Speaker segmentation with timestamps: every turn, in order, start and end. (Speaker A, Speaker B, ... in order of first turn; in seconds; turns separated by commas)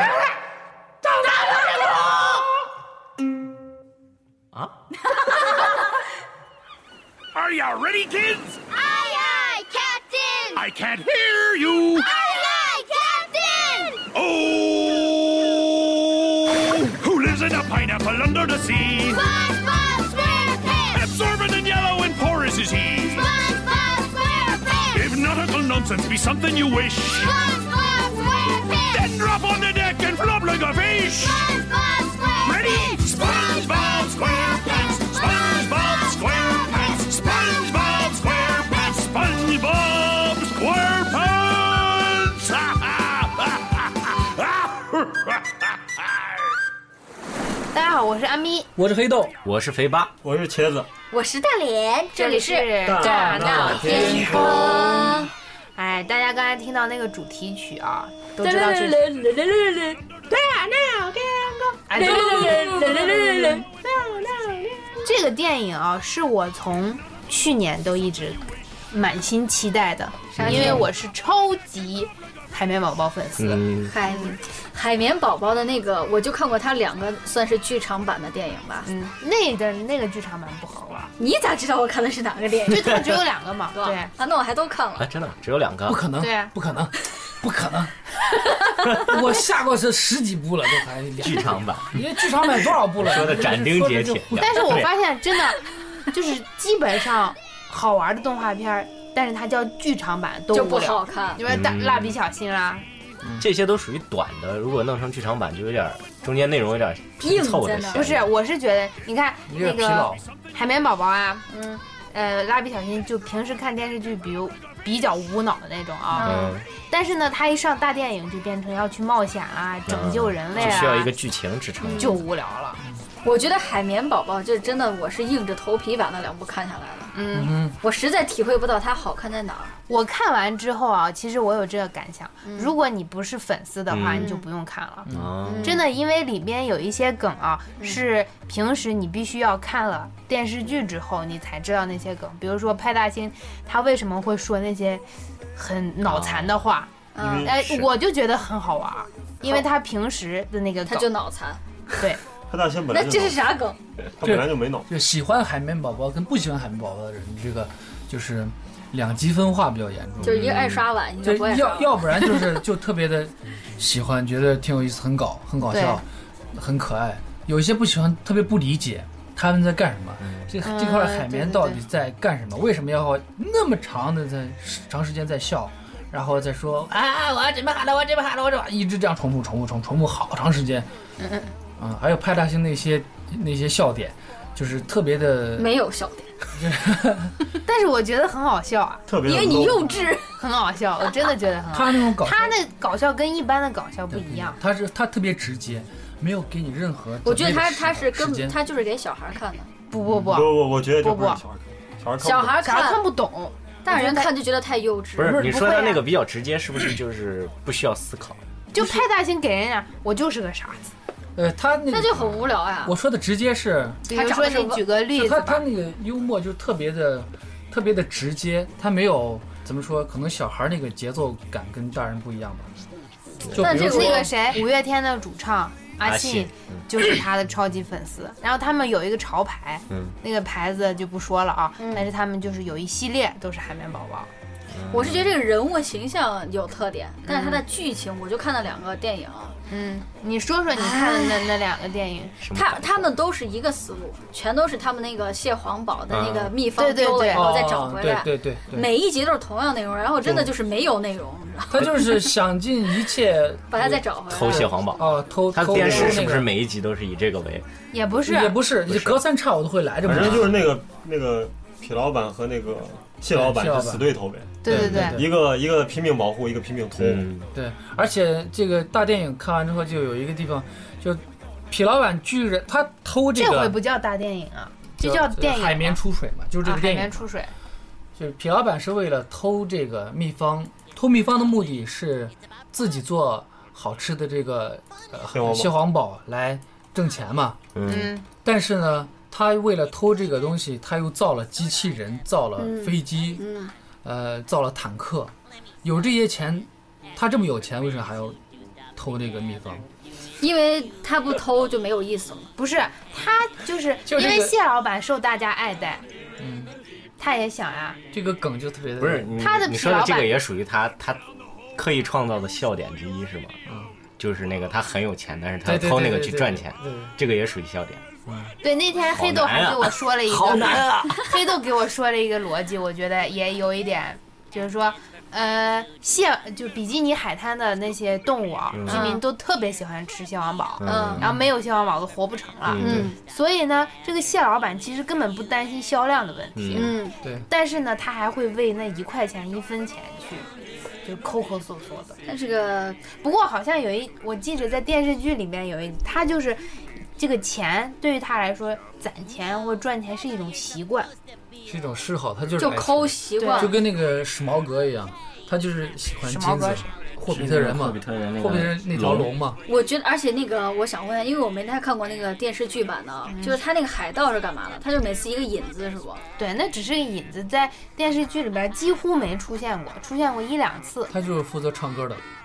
Speaker A: 7.3-8.6, Speaker B: 8.8-10.6, Speaker A: 10.5-12.1, Speaker B: 12.0-14.0, Speaker A: 14.1-19.2, Speaker B: 19.3-20.9, Speaker A: 20.9-23.3, Speaker B: 23.4-24.8, Speaker A: 24.9-27.4, Speaker B: 27.6-28.8, Speaker A: 28.9-31.5, Speaker B: 31.7-32.3, Speaker A: 32.4-46.0, Speaker C: 47.7-48.7, Speaker D: 48.8-49.4, Speaker E: 49.4-50.1, Speaker F: 50.2-50.9, Speaker G: 51.1-55.3, Speaker C: 52.2-55.2, Speaker F: 52.8-54.9, Speaker D: 53.0-54.5, Speaker C: 55.8-59.1, Speaker G: 58.4-60.0, Speaker B: 60.4-61.6, Speaker C: 61.9-63.6, Speaker G: 61.9-63.7, Speaker C: 65.0-74.4, Speaker G: 70.3-70.9, Speaker E: 70.4-70.8, Speaker E: 73.4-73.9, Speaker G: 73.9-78.9, Speaker C: 78.8-81.1, Speaker G: 81.2-83.1, Speaker C: 82.7-84.1, Speaker G: 83.7-85.1, Speaker E: 85.0-86.1, Speaker D: 85.9-88.1, Speaker C: 86.2-86.5, Speaker G: 88.5-89.0, Speaker D: 89.0-94.7, Speaker E: 91.2-92.0, Speaker E: 92.9-95.0, Speaker C: 94.3-102.8, Speaker G: 100.5-101.4, Speaker E: 101.5-102.2, Speaker E: 103.4-108.3, Speaker G: 107.2-108.0, Speaker C: 107.9-121.1, Speaker D: 109.5-110.2, Speaker G: 116.2-116.5, Speaker E: 116.2-116.7, Speaker E: 119.9-122.2, Speaker G: 121.8-122.2, Speaker C: 121.9-122.8, Speaker G: 123.2-127.1, Speaker C: 127.1-127.6, Speaker D: 127.3-127.8, Speaker G: 127.8-129.7, Speaker C: 129.9-135.1, Speaker G: 132.4-132.7, Speaker E: 133.9-134.3, Speaker G: 134.2-134.4, Speaker D: 135.1-135.4, Speaker E: 135.1-135.8, Speaker G: 135.4-135.8, Speaker C: 135.6-145.0, Speaker C: 145.6-151.1, Speaker E: 146.1-146.5, Speaker G: 147.1-147.5, Speaker F: 147.2-147.9, Speaker G: 150.8-151.6, Speaker F: 152.5-153.5, Speaker G: 152.9-153.8, Speaker F: 154.2-154.9, Speaker D: 154.2-180.9, Speaker G: 160.2-162.4, Speaker E: 160.3-160.8, Speaker C: 165.7-166.0, Speaker C: 170.6-171.8, Speaker C: 181.2-181.5, Speaker D: 181.8-185.8, Speaker G: 185.6-186.3, Speaker D: 186.5-187.4, Speaker C: 187.6-189.1, Speaker F: 189.1-190.0, Speaker G: 189.2-190.3, Speaker C: 190.3-194.6, Speaker D: 191.7-192.6, Speaker D: 194.1-198.6, Speaker G: 197.2-199.7, Speaker C: 199.9-201.4, Speaker D: 200.0-200.4, Speaker F: 200.3-202.7, Speaker G: 202.2-203.1, Speaker C: 202.6-204.3, Speaker G: 203.8-205.4, Speaker E: 205.2-208.4, Speaker D: 205.2-205.9, Speaker C: 205.4-206.1, Speaker C: 208.7-210.9, Speaker D: 208.8-209.0, Speaker D: 211.4-214.0, Speaker G: 211.9-212.9, Speaker C: 214.1-215.6, Speaker G: 214.1-214.9, Speaker D: 215.1-222.7, Speaker D: 223.5-224.3, Speaker G: 223.6-224.6, Speaker C: 223.6-234.3, Speaker E: 226.0-226.8, Speaker E: 229.9-230.2, Speaker G: 231.8-232.1, Speaker E: 234.7-235.3, Speaker G: 234.9-239.6, Speaker C: 237.3-237.6, Speaker C: 239.7-242.4, Speaker G: 240.8-241.5, Speaker E: 242.4-243.1, Speaker G: 242.5-252.3, Speaker E: 246.1-246.5, Speaker C: 246.7-247.6, Speaker D: 247.3-248.9, Speaker D: 251.7-256.5, Speaker G: 253.7-254.7, Speaker E: 254.3-257.6, Speaker C: 257.9-258.6, Speaker D: 258.2-260.5, Speaker E: 258.9-259.2, Speaker F: 260.0-267.3, Speaker D: 263.3-264.1, Speaker C: 264.6-265.2, Speaker D: 264.6-265.3, Speaker E: 267.0-267.5, Speaker D: 267.5-273.8, Speaker C: 273.3-276.0, Speaker D: 275.0-277.3, Speaker C: 276.6-277.5, Speaker D: 278.2-287.6, Speaker F: 285.3-285.7, Speaker E: 287.8-288.1, Speaker C: 287.9-288.2, Speaker D: 288.4-293.4, Speaker G: 292.6-293.7, Speaker D: 294.0-298.4, Speaker D: 298.9-299.9, Speaker G: 300.4-302.5, Speaker C: 302.6-306.0, Speaker D: 304.1-304.6, Speaker D: 306.4-306.7, Speaker C: 307.2-308.0, Speaker D: 308.1-309.4, Speaker E: 309.0-311.2, Speaker C: 309.4-310.4, Speaker E: 311.8-313.6, Speaker E: 314.2-318.0, Speaker D: 315.6-317.1, Speaker D: 318.3-318.5, Speaker C: 318.6-340.5, Speaker E: 319.1-321.5, Speaker E: 328.7-329.2, Speaker G: 328.9-329.2, Speaker E: 330.8-331.3, Speaker G: 330.8-331.2, Speaker D: 331.2-331.5, Speaker E: 332.6-333.1, Speaker G: 332.8-333.2, Speaker E: 336.6-336.9, Speaker G: 336.7-337.1, Speaker C: 341.1-342.2, Speaker G: 342.3-343.0, Speaker C: 343.1-351.1, Speaker D: 351.7-359.6, Speaker G: 352.6-353.8, Speaker C: 353.4-353.8, Speaker C: 356.2-356.9, Speaker E: 357.3-359.3, Speaker G: 359.7-366.2, Speaker C: 363.3-363.6, Speaker C: 366.4-371.1, Speaker D: 371.1-372.2